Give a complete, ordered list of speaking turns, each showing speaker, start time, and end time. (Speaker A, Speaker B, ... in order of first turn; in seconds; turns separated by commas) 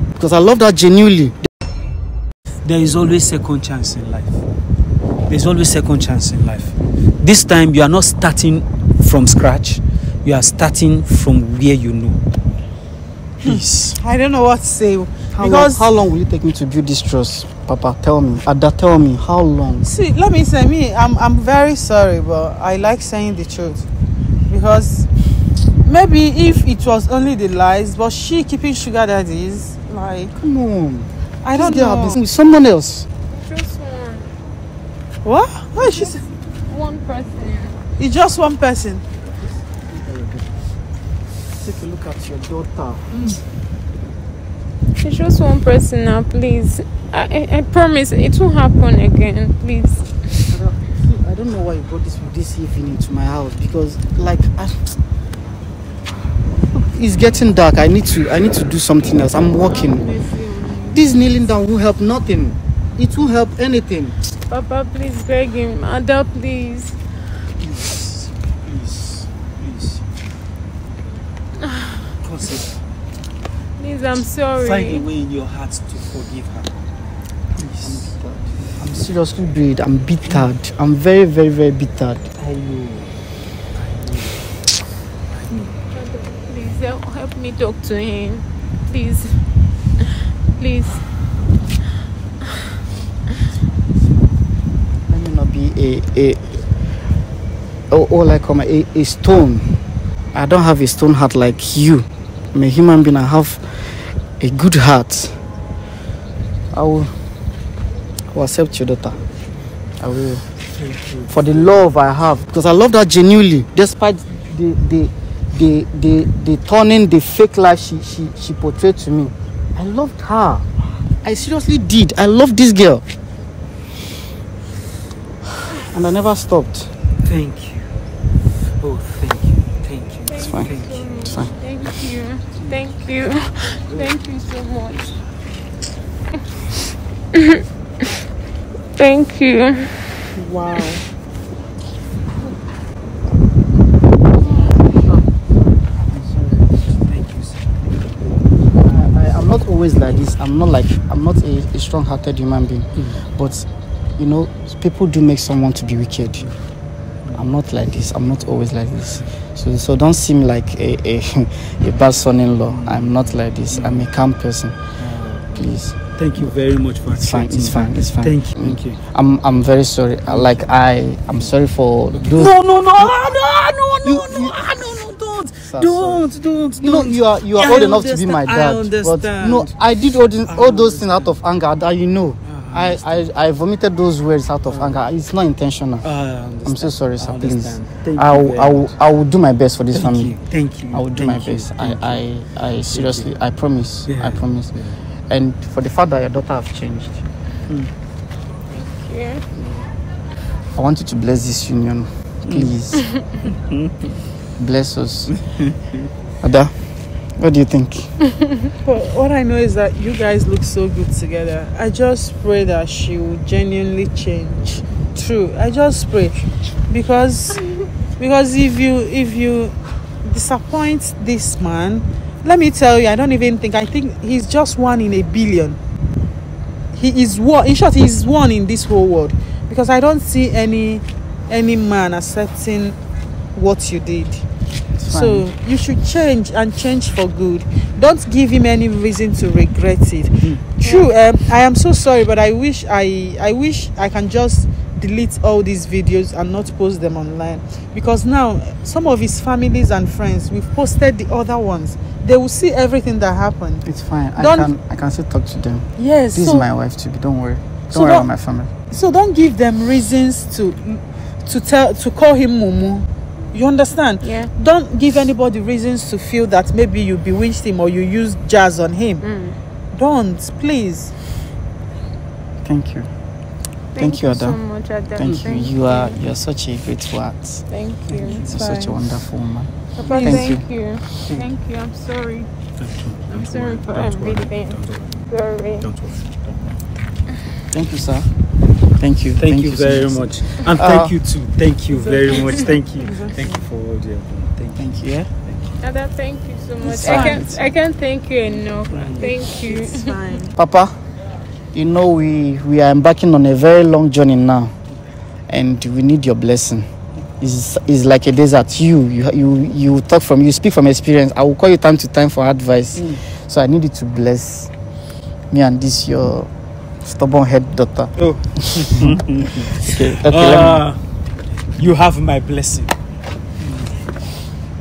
Speaker A: 0.2-1.4, Speaker B: 2.6-4.4, Speaker B: 5.3-12.2, Speaker B: 13.4-14.0, Speaker C: 13.4-15.8, Speaker A: 15.4-19.9, Speaker C: 19.8-23.9, Speaker C: 24.5-25.1, Speaker C: 25.9-30.3, Speaker A: 30.3-33.1, Speaker C: 31.4-32.2, Speaker D: 33.3-34.3, Speaker C: 35.2-36.2, Speaker D: 35.8-37.8, Speaker C: 38.0-39.0, Speaker A: 39.4-40.5, Speaker A: 41.6-43.3, Speaker D: 45.0-50.6, Speaker A: 50.5-55.0, Speaker A: 56.7-60.1, Speaker D: 59.6-61.1, Speaker A: 60.9-64.2, Speaker D: 64.5-67.0, Speaker B: 67.6-70.0, Speaker D: 71.6-72.1, Speaker B: 72.2-72.8, Speaker D: 73.8-75.1, Speaker B: 74.6-76.7, Speaker B: 77.6-78.9, Speaker A: 77.8-82.3, Speaker B: 82.4-83.2, Speaker B: 83.7-84.5, Speaker B: 85.3-85.7, Speaker D: 85.9-89.4, Speaker D: 90.0-91.0, Speaker A: 95.1-96.7, Speaker A: 97.9-99.7, Speaker A: 100.3-105.4, Speaker A: 106.7-107.1, Speaker A: 108.3-109.2, Speaker A: 110.0-110.5, Speaker B: 110.7-111.8, Speaker A: 111.3-120.7, Speaker A: 121.2-123.0, Speaker A: 125.8-126.9, Speaker B: 127.2-127.9, Speaker B: 128.8-131.2, Speaker D: 130.3-135.2, Speaker A: 130.4-131.6, Speaker D: 137.3-138.1, Speaker D: 139.0-140.3, Speaker C: 140.4-141.0, Speaker B: 146.1-147.8, Speaker A: 148.8-156.5, Speaker A: 157.3-164.8, Speaker B: 162.7-164.1, Speaker B: 165.0-165.5, Speaker A: 165.5-166.5, Speaker B: 166.2-169.0, Speaker A: 167.1-173.2, Speaker B: 170.3-170.7, Speaker B: 172.1-179.7, Speaker A: 174.0-175.0, Speaker A: 175.7-176.2, Speaker A: 176.8-186.1, Speaker B: 180.4-181.4, Speaker B: 182.5-183.3, Speaker B: 184.7-185.0, Speaker B: 186.0-189.0, Speaker A: 186.6-190.3, Speaker B: 189.9-192.2, Speaker A: 190.9-194.8, Speaker B: 192.8-193.3, Speaker B: 194.1-195.0, Speaker A: 195.3-197.2, Speaker D: 198.7-199.4, Speaker B: 199.6-199.8, Speaker A: 200.7-203.1, Speaker B: 202.4-202.7, Speaker D: 203.1-203.4, Speaker B: 203.4-204.1, Speaker A: 204.6-205.4, Speaker B: 205.3-206.1, Speaker A: 206.4-206.7, Speaker A: 207.4-208.1, Speaker D: 208.3-208.7, Speaker C: 208.8-217.6, Speaker C: 218.2-225.8, Speaker C: 226.9-233.0, Speaker C: 233.6-234.4, Speaker A: 234.9-235.5, Speaker C: 235.1-253.8, Speaker D: 240.8-241.1, Speaker A: 253.8-258.7, Speaker C: 254.4-254.7, Speaker C: 256.0-256.7, Speaker C: 257.9-258.3, Speaker C: 258.9-269.2, Speaker D: 264.2-264.5, Speaker D: 269.2-269.6, Speaker C: 269.9-271.1, Speaker A: 272.6-273.1, Speaker D: 273.9-276.2, Speaker A: 274.0-274.6, Speaker A: 275.1-277.6, Speaker D: 277.7-278.5, Speaker B: 278.1-278.5, Speaker A: 278.3-280.6, Speaker C: 278.4-279.0, Speaker D: 280.0-282.5, Speaker C: 280.1-280.4, Speaker B: 282.8-285.2, Speaker D: 283.3-285.9, Speaker B: 285.8-286.6, Speaker A: 287.7-288.3, Speaker A: 288.9-291.1, Speaker B: 289.4-295.8, Speaker C: 291.9-293.6, Speaker A: 294.8-295.3, Speaker D: 295.8-300.2, Speaker A: 296.8-297.7, Speaker C: 297.0-297.4, Speaker B: 298.9-299.3, Speaker C: 299.1-300.5, Speaker A: 300.6-300.9, Speaker A: 301.7-304.7, Speaker A: 305.5-306.9, Speaker A: 307.4-314.7, Speaker A: 315.5-316.5, Speaker A: 317.0-320.8, Speaker B: 318.2-321.0, Speaker B: 321.8-322.9